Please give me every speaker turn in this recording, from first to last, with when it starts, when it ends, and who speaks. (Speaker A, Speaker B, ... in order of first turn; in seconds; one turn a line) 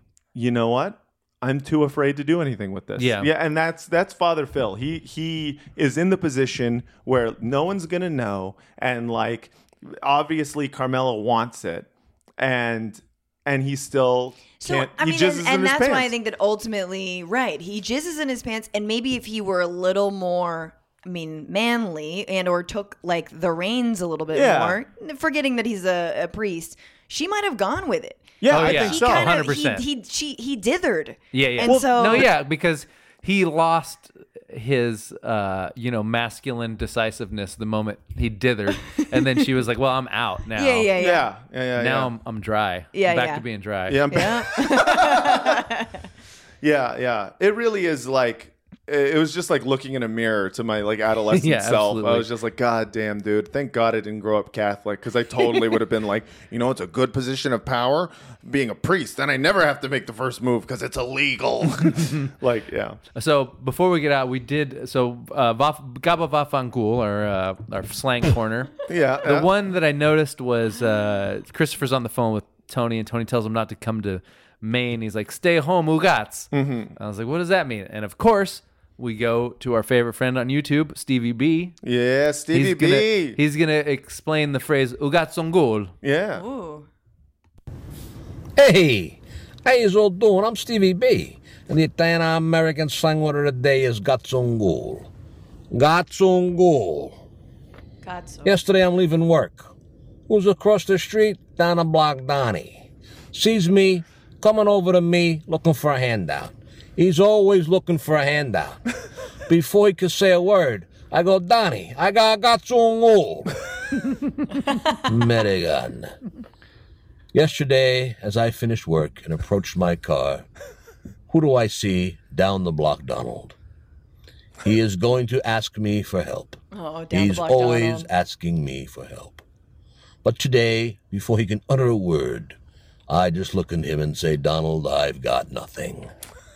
Speaker A: 0.3-16.1
Speaker B: 3.0-3.3
Speaker C: 14.6-32.3
Speaker A: 24.3-24.8
Speaker A: 28.4-29.3
Speaker B: 28.5-29.8
Speaker B: 31.3-40.9
Speaker A: 31.6-32.3
Speaker C: 40.5-41.3
Speaker A: 41.0-42.1
Speaker B: 41.8-44.1
Speaker C: 42.9-43.4
Speaker A: 43.9-45.6
Speaker C: 44.1-46.0
Speaker A: 46.6-63.0
Speaker B: 51.3-52.3
Speaker B: 62.0-62.3
Speaker B: 63.1-81.8
Speaker A: 68.9-69.5
Speaker A: 76.5-76.9
Speaker A: 81.8-83.4
Speaker B: 82.5-85.9
Speaker A: 86.0-86.4
Speaker C: 86.3-86.9
Speaker D: 88.6-95.1
Speaker D: 95.7-97.2
Speaker C: 98.0-98.5
Speaker D: 98.4-99.7
Speaker D: 100.3-108.8
Speaker D: 109.5-113.5
Speaker D: 115.0-116.1
Speaker D: 117.3-120.5
Speaker D: 121.3-123.5
Speaker D: 124.6-126.6
Speaker C: 126.7-128.1
Speaker D: 127.1-129.4
Speaker D: 130.2-132.6
Speaker D: 133.1-136.1